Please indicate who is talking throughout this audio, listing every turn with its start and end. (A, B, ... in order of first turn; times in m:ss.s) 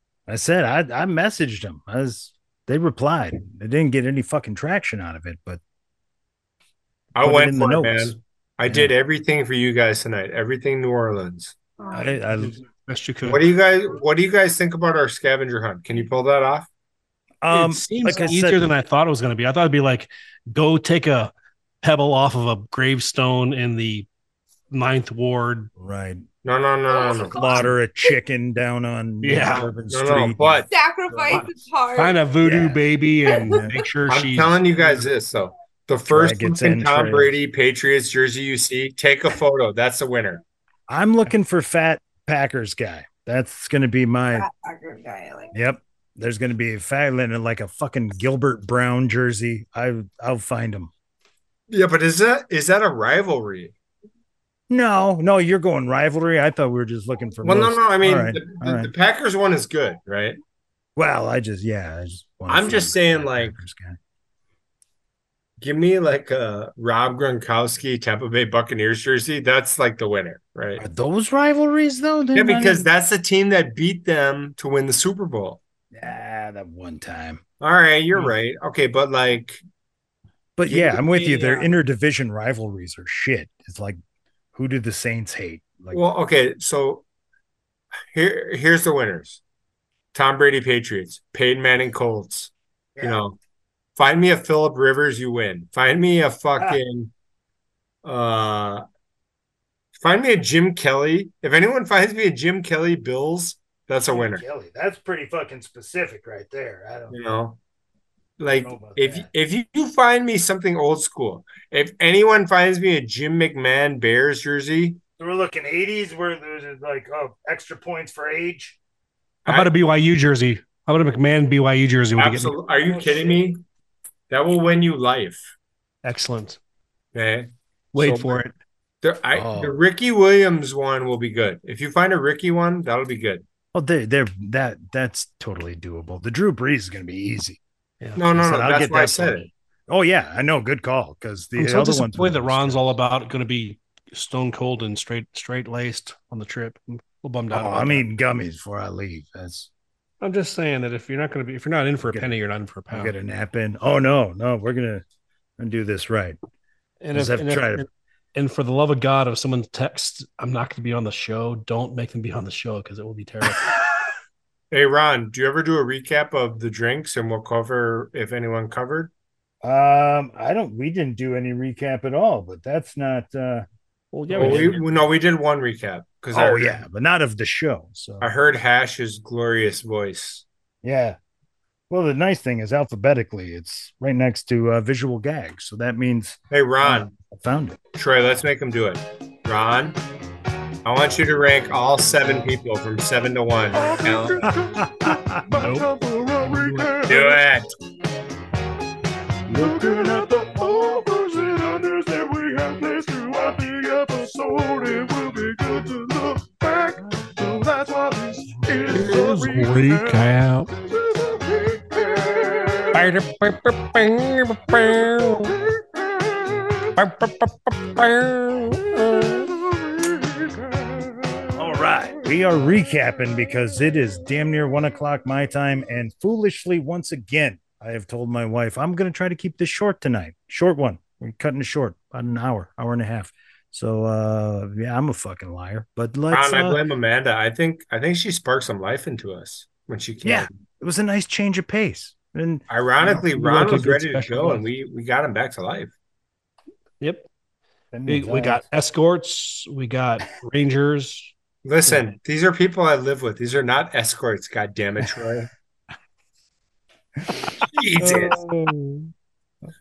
0:00.3-0:05.6 A
0:07.1-0:11.6 B
0:07.2-0:08.9 A
0:11.9-0:12.6 A
0:12.3-0:13.5 C
0:13.2-0:16.7 B
0:17.4-0:18.7 A
0:17.5-0:24.1 C
0:24.7-0:25.7 C
0:25.8-0:26.2 A
0:26.4-0:27.6 B
0:26.9-0:28.1 D
0:27.3-0:31.4 A
0:29.2-0:29.7 C
0:29.5-0:30.7 B
0:30.7-0:32.2 D
0:31.3-0:35.0 C
0:32.4-0:32.8 A
0:33.3-0:33.6 D
0:33.5-0:33.8 A
0:34.1-0:40.4 B
0:36.1-0:37.3 A
0:40.9-0:44.5 A
0:44.3-0:45.6 D
0:45.5-0:50.9 A
0:51.7-0:53.7 B
0:54.7-0:58.9 A
0:57.4-1:00.4 B
1:01.0-1:04.0 A
1:02.5-1:03.6 B
1:05.6-1:10.8 B
1:10.8-1:12.8 A
1:12.3-1:15.6 B
1:15.9-1:17.4 A
1:17.6-1:19.6 B
1:20.6-1:24.0 A
1:20.6-1:21.7 B
1:24.5-1:26.0 A
1:25.9-1:27.0 B
1:28.1-1:29.4 B
1:30.1-1:33.4 B
1:34.0-1:37.1 B
1:38.0-1:38.8 B
1:40.0-1:44.4 B
1:44.1-1:47.1 A
1:47.1-1:47.6 B
1:48.4-1:55.0 B
1:48.5-1:49.3 A
1:55.2-1:58.8 A
1:59.4-1:59.7 B
1:59.4-2:02.6 C
2:02.2-2:03.6 B
2:02.8-2:03.4 A
2:04.3-2:05.4 B
2:06.0-2:06.6 C
2:07.1-2:08.4 B
2:07.9-2:08.5 C
2:09.0-2:13.4 B
2:09.3-2:09.8 A
2:13.7-2:17.6 A
2:18.2-2:19.5 B
2:18.3-2:22.9 A
2:21.6-2:28.0 C
2:27.5-2:29.7 A
2:30.2-2:33.1 C
2:32.9-2:35.0 A
2:35.6-2:36.4 A
2:37.0-2:43.7 C
2:37.1-2:37.8 A
2:44.7-2:49.1 B
2:49.6-2:53.6 A
2:54.1-2:54.8 C
2:54.3-2:54.8 A
2:54.3-2:56.8 B
2:56.3-2:58.3 A
2:58.2-3:00.4 B
3:00.8-3:01.2 A
3:01.9-3:07.8 A
3:06.5-3:07.1 B
3:07.9-3:10.0 B
3:10.8-3:14.5 B
3:13.7-3:17.4 E
3:14.5-3:15.7 A
3:15.5-3:15.9 C
3:16.4-3:16.9 C
3:17.1-3:17.7 B
3:19.5-3:21.3 A
3:19.5-3:33.1 E
3:28.9-3:30.7 C
3:32.9-3:35.5 C
3:35.5-3:36.6 E
3:37.0-3:39.5 C
3:39.6-3:41.6 E
3:41.5-3:56.8 A
3:56.3-4:00.6 B
4:00.2-4:02.6 A
4:02.7-4:05.9 B
4:03.0-4:04.6 C
4:07.0-4:07.2 C
4:07.9-4:08.6 A
4:08.1-4:11.3 C
4:11.6-4:15.5 B
4:17.7-4:18.4 B
4:18.0-4:19.1 A